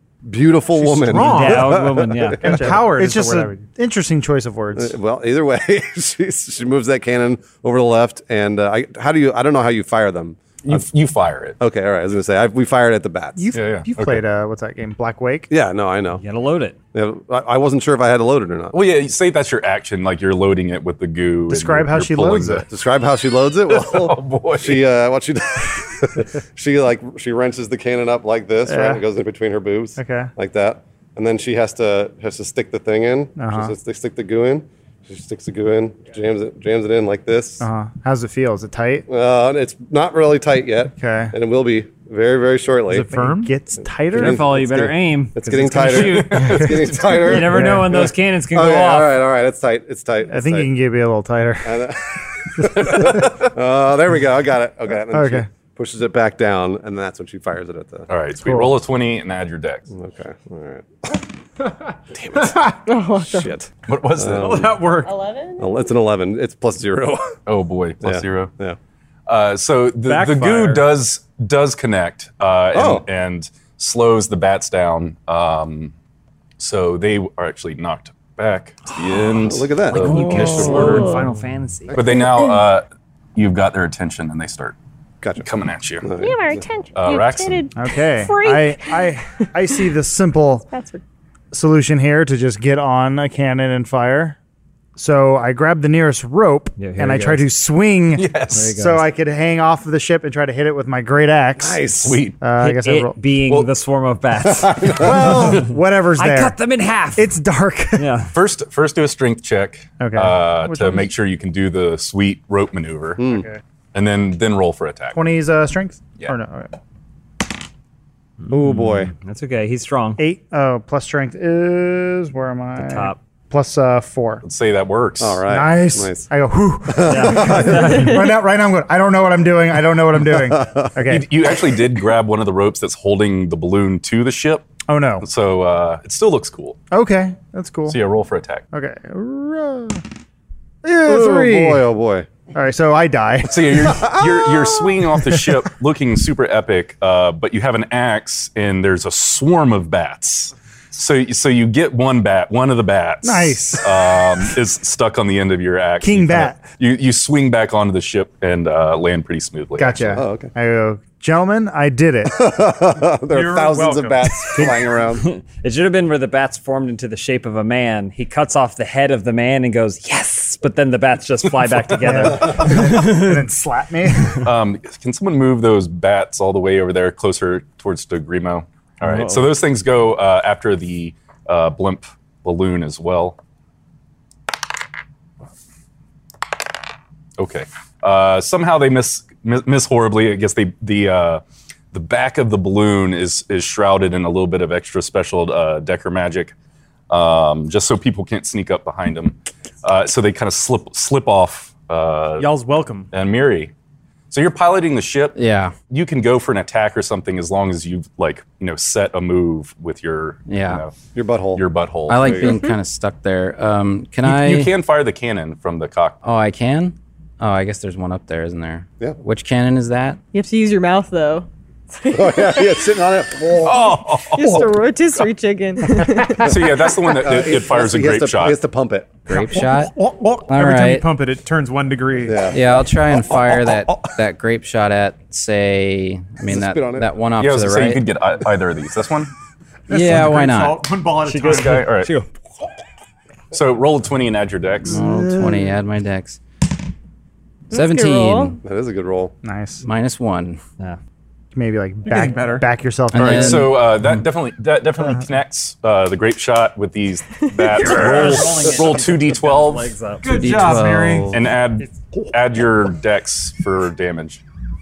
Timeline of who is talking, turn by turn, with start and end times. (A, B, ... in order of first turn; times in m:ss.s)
0:00.2-0:02.7 A
0:00.7-0:01.8 B
0:01.1-0:02.7 C
0:02.4-0:03.5 B
0:02.4-0:05.0 D
0:04.8-0:10.8 A
0:10.6-0:11.6 E
0:11.6-0:13.4 A
0:13.4-0:15.5 D
0:13.5-0:14.2 E
0:15.5-0:16.2 A
0:16.2-0:16.8 C
0:16.9-0:18.8 A
0:18.7-0:22.7 E
0:21.5-0:22.6 D
0:22.7-0:37.6 A
0:23.7-0:24.9 E
0:28.7-0:29.0 D
0:30.0-0:30.3 D
0:33.4-0:33.7 D
0:37.6-0:39.1 D
0:39.1-0:43.1 A
0:40.9-0:41.3 D
0:42.9-0:43.6 B
0:43.1-0:44.4 D
0:44.1-0:50.7 A
0:44.1-0:49.2 C
0:46.0-0:46.6 E
0:46.5-0:48.1 D
0:50.3-0:51.9 D
0:51.6-0:58.1 A
0:52.7-0:53.2 E
0:52.8-0:53.2 D
0:55.1-0:55.5 D
0:58.1-0:59.9 E
0:59.9-1:01.2 A
1:02.1-1:04.7 A
1:02.8-1:03.5 F
1:03.9-1:04.7 E
1:04.3-1:05.1 B
1:05.0-1:05.8 F
1:05.6-1:07.4 A
1:07.5-1:08.5 E
1:08.0-1:08.8 A
1:09.3-1:15.9 E
1:10.0-1:10.8 B
1:12.7-1:13.0 A
1:16.6-1:21.1 E
1:19.3-1:20.6 A
1:19.9-1:22.0 C
1:20.3-1:21.2 F
1:21.9-1:22.2 A
1:21.9-1:22.8 E
1:23.4-1:24.7 E
1:25.4-1:26.1 E
1:26.0-1:26.6 A
1:26.2-1:29.1 F
1:26.9-1:27.6 E
1:27.8-1:30.7 D
1:30.7-1:31.0 F
1:31.5-1:34.4 D
1:35.0-1:41.8 D
1:36.8-1:37.5 C
1:38.1-1:38.7 E
1:38.5-1:39.0 C
1:41.6-1:42.2 A
1:42.0-1:42.4 E
1:42.4-1:43.2 D
1:42.6-1:45.3 C
1:44.4-1:45.6 A
1:44.9-1:46.6 D
1:46.2-1:47.4 C
1:47.2-1:48.2 D
1:48.0-1:48.3 C
1:48.3-1:53.4 E
1:50.0-1:51.1 D
1:53.2-1:53.5 A
1:53.9-1:55.2 E
1:55.1-1:56.7 D
1:58.4-2:00.2 C
1:58.5-1:59.1 A
2:00.2-2:04.4 D
2:02.8-2:03.2 C
2:04.4-2:05.4 E
2:05.2-2:06.3 A
2:05.5-2:11.3 D
2:06.9-2:08.2 A
2:07.0-2:08.2 C
2:10.5-2:10.9 A
2:11.0-2:14.7 E
2:14.9-2:15.2 D
2:15.2-2:16.8 E
2:16.9-2:18.0 D
2:17.9-2:18.6 E
2:18.7-2:20.0 D
2:20.8-2:21.8 D
2:21.1-2:22.3 A
2:22.5-2:24.3 D
2:23.4-2:40.2 E
2:23.9-2:24.6 A
2:33.2-2:34.6 D
2:36.0-2:36.6 D
2:39.8-2:42.5 D
2:40.2-2:40.5 A
2:42.3-2:45.2 A
2:43.3-2:44.5 B
2:44.5-2:53.4 C
2:52.0-2:54.4 D
2:54.4-3:03.4 E
2:59.0-2:59.4 C
3:07.4-3:16.5 E
3:17.1-3:22.5 E
3:22.4-3:23.1 B
3:23.1-3:23.7 E
3:24.3-3:30.9 E
3:25.3-3:25.7 G
3:30.5-3:30.8 G
3:31.1-3:32.6 A
3:31.5-3:32.6 E
3:32.1-3:34.7 G
3:34.2-3:36.2 E
3:36.2-3:40.2 G
3:40.3-3:43.0 F
3:42.1-3:44.6 A
3:43.6-3:44.7 E
3:44.3-3:47.1 F
3:46.2-3:48.6 E
3:46.4-3:49.2 A
3:49.3-3:51.1 G
3:49.3-3:52.5 B
3:52.2-3:54.1 A
3:52.5-3:58.0 G
3:56.4-3:57.1 A
3:57.4-3:59.3 E
3:59.9-4:00.9 G
3:59.9-4:01.9 B
4:01.2-4:02.3 C
4:01.4-4:02.1 E
4:03.5-4:05.0 E
4:04.8-4:06.4 G
4:07.7-4:08.6 F
4:07.7-4:08.6 G
4:08.6-4:09.3 A
4:09.4-4:09.8 D
4:09.8-4:10.6 G
4:11.5-4:13.7 D
4:12.0-4:12.6 B
4:13.1-4:14.1 G
4:13.1-4:19.9 E
4:17.7-4:20.8 C
4:17.8-4:18.5 B
4:20.2-4:21.3 B
4:20.3-4:21.4 G
4:21.3-4:24.4 E